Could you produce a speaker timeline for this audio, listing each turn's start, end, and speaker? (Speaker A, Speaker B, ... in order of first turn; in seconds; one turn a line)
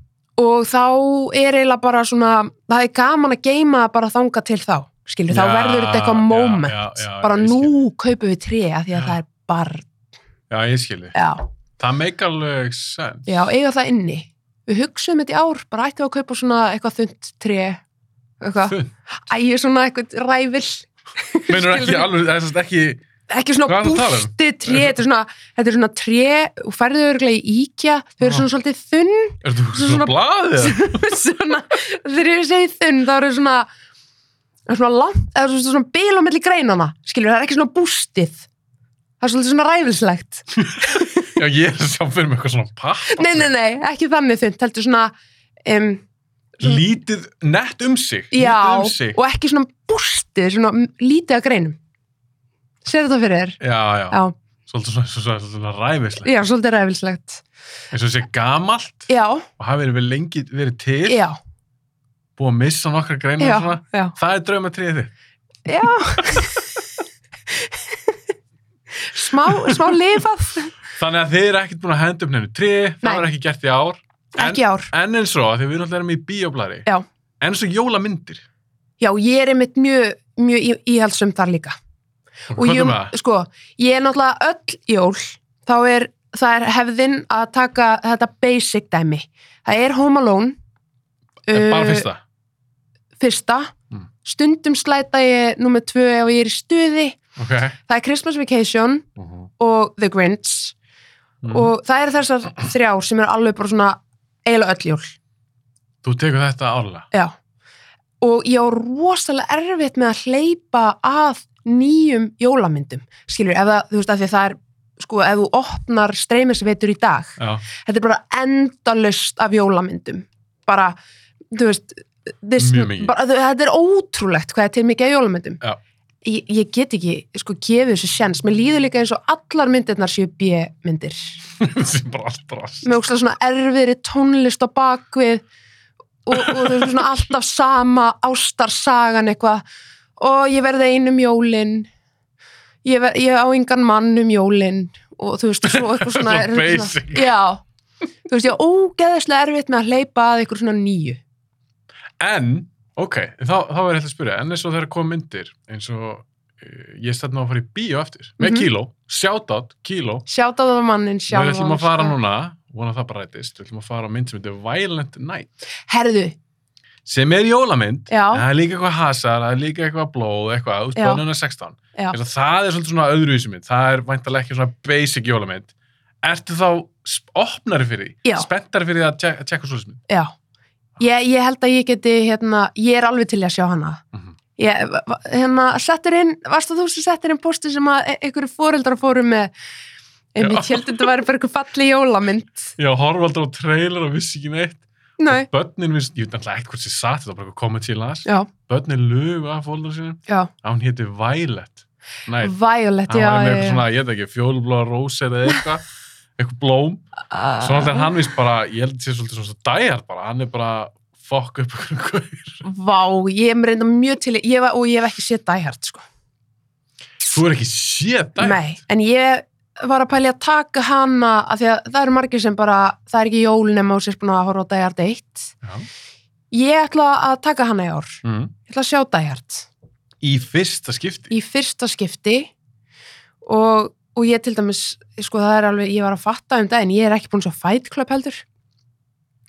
Speaker A: 0.4-9.9
Speaker B: 5.3-7.8
Speaker B: 10.5-11.2
Speaker A: 11.1-11.4
Speaker B: 11.8-13.4
Speaker A: 13.3-17.8
Speaker A: 18.4-22.1
Speaker B: 18.6-18.9
Speaker B: 21.5-23.1
Speaker A: 23.3-33.7
Speaker B: 23.6-24.9
Speaker B: 29.4-31.1
Speaker A: 34.7-38.5
Speaker A: 39.2-41.3
Speaker B: 40.6-43.5
Speaker A: 43.2-45.1
Speaker A: 45.6-46.0
Speaker B: 46.6-49.2
Speaker A: 48.3-51.8
Speaker A: 52.8-53.6
Speaker B: 53.6-56.3
Speaker A: 56.2-57.4
Speaker B: 57.9-61.3
Speaker A: 59.1-59.5
Speaker A: 61.1-61.4
Speaker B: 62.4-65.1
Speaker A: 63.4-64.1
Speaker A: 65.7-66.7
Speaker B: 66.3-66.5
Speaker A: 67.5-68.2
Speaker A: 69.0-70.7
Speaker B: 69.5-69.9
Speaker B: 70.9-76.9
Speaker A: 74.4-74.9
Speaker B: 77.4-78.4
Speaker A: 79.0-81.7
Speaker B: 82.5-83.1
Speaker A: 82.6-90.6
Speaker A: 91.5-92.1
Speaker B: 91.5-92.2
Speaker A: 93.2-93.7
Speaker A: 94.2-97.2
Speaker B: 97.4-97.8
Speaker A: 97.9-99.1
Speaker B: 99.2-99.5
Speaker A: 99.6-100.7
Speaker B: 101.4-101.7
Speaker A: 101.5-105.1
Speaker B: 106.0-107.1
Speaker A: 108.2-121.0
Speaker B: 117.4-117.6
Speaker A: 121.5-125.6
Speaker B: 122.6-123.1
Speaker A: 126.2-131.4
Speaker B: 131.6-132.9
Speaker A: 132.8-135.4
Speaker A: 136.2-139.6
Speaker B: 136.3-136.9
Speaker A: 140.2-141.9
Speaker A: 142.8-147.6
Speaker B: 145.6-147.3
Speaker A: 148.3-151.2
Speaker B: 152.2-160.2
Speaker A: 158.4-158.7
Speaker A: 160.3-162.1
Speaker B: 161.3-165.6
Speaker A: 165.8-166.3
Speaker B: 167.0-175.7
Speaker A: 168.1-168.4
Speaker A: 170.9-171.2
Speaker B: 176.2-180.0
Speaker A: 181.0-184.0
Speaker A: 184.6-189.5
Speaker A: 190.3-192.7
Speaker B: 190.4-191.1
Speaker B: 192.8-202.5
Speaker A: 195.2-195.5
Speaker A: 202.4-203.8
Speaker B: 203.1-205.8
Speaker B: 206.4-207.0
Speaker A: 207.3-208.1
Speaker B: 207.6-212.6
Speaker A: 212.6-216.0
Speaker B: 217.2-218.6
Speaker A: 218.4-225.5
Speaker B: 225.6-225.9
Speaker A: 226.5-229.7
Speaker B: 228.2-228.5
Speaker B: 230.2-231.3
Speaker A: 231.3-232.5
Speaker A: 233.4-238.4